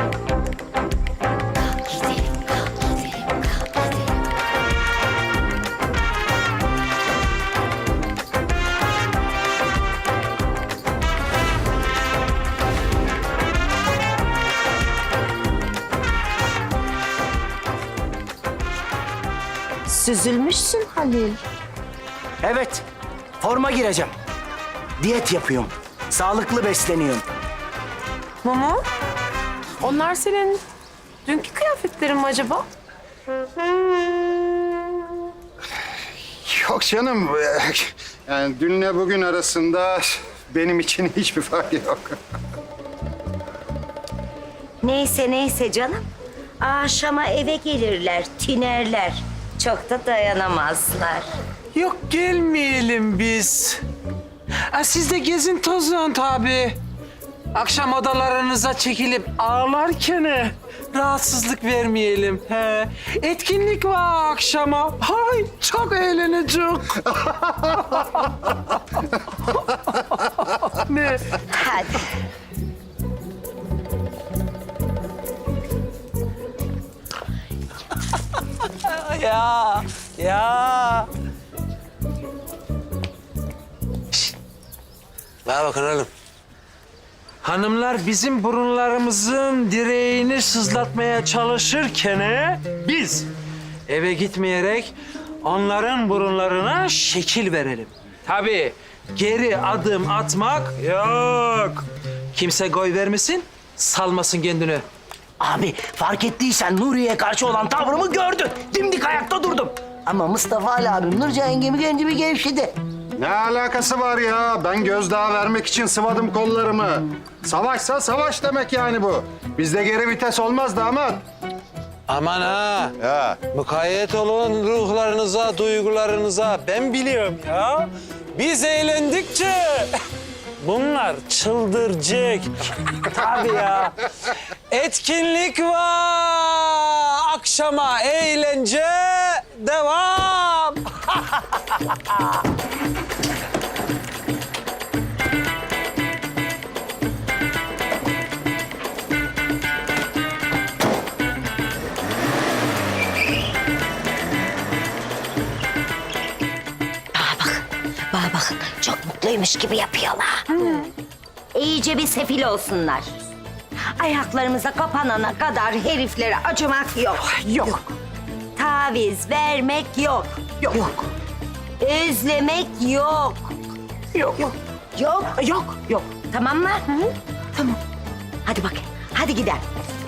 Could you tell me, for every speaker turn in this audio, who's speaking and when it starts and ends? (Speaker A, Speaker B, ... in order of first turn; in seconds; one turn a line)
Speaker A: 19.9-21.4
Speaker B: 22.4-22.8
Speaker B: 23.4-24.1
Speaker B: 25.0-27.2
Speaker C: 28.4-28.8
Speaker C: 29.8-30.6
Speaker C: 31.2-32.7
Speaker D: 36.3-42.2
Speaker A: 44.8-46.0
Speaker A: 46.6-51.3
Speaker E: 51.7-53.8
Speaker E: 54.7-56.8
Speaker E: 57.5-71.3
Speaker A: 71.5-72.1
Speaker E: 78.6-81.1
Speaker E: 85.4-86.1
Speaker E: 87.4-93.3
Speaker E: 93.9-104.8
Speaker B: 105.4-112.7
Speaker D: 113.2-121.2
Speaker E: 122.1-129.9
Speaker D: 123.0-123.4
Speaker E: 130.6-142.4
Speaker A: 157.1-160.9
Speaker A: 161.5-163.1
Speaker A: 163.9-167.4
Speaker B: 167.4-167.8
Speaker A: 168.5-170.9
Speaker A: 171.8-173.6
Speaker A: 174.2-177.8
Speaker A: 178.4-179.6